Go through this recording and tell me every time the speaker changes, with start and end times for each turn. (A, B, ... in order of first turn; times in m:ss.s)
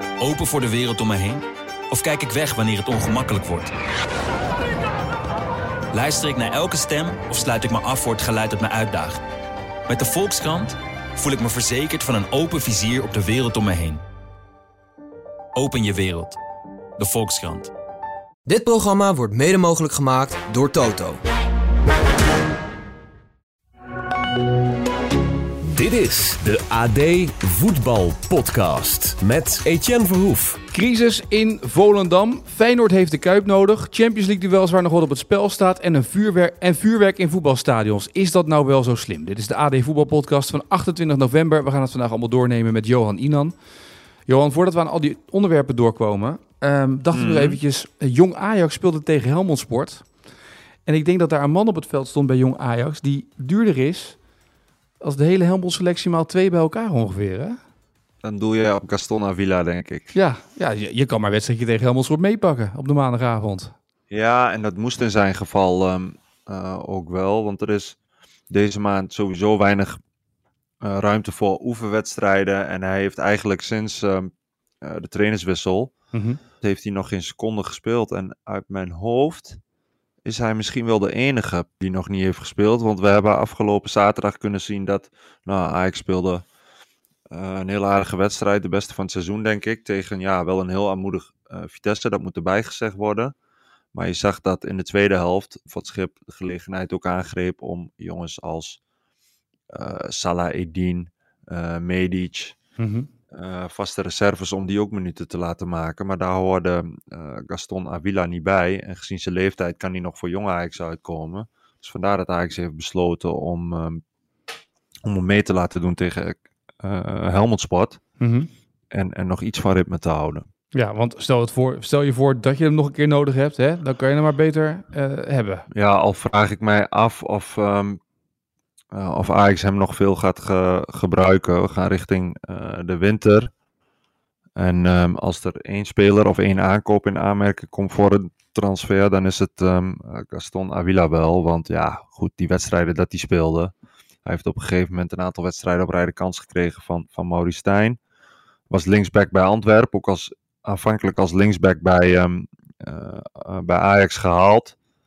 0:00.2-0:03.7 A
0:05.9-0:09.2 A
0:09.9-0:14.0 A
0:15.6-0:16.4 A
0:17.0-0:17.7 A
0:18.5-0:21.2 B
0:25.7-0:30.6 C
0:30.7-0:43.5 D
0:44.3-0:50.1 D
0:47.1-0:47.6 E
0:50.9-0:54.2 D
0:55.0-0:57.6 D
0:58.2-1:00.1 E
1:00.1-1:03.7 D
1:04.1-1:08.0 E
1:08.5-1:10.0 E
1:10.8-1:14.3 E
1:14.8-1:15.9 E
1:16.1-1:16.4 D
1:16.6-1:19.6 E
1:20.2-1:26.4 E
1:27.3-1:33.4 E
1:33.9-1:38.8 E
1:39.7-1:42.6 E
1:42.8-1:43.1 D
1:43.3-1:54.0 E
1:55.0-1:58.0 E
1:58.2-1:58.5 D
1:58.9-2:00.5 E
2:00.7-2:05.7 D
2:05.7-2:08.0 E
2:08.9-2:13.5 E
2:14.6-2:23.7 E
2:24.2-2:28.0 E
2:28.7-2:34.8 E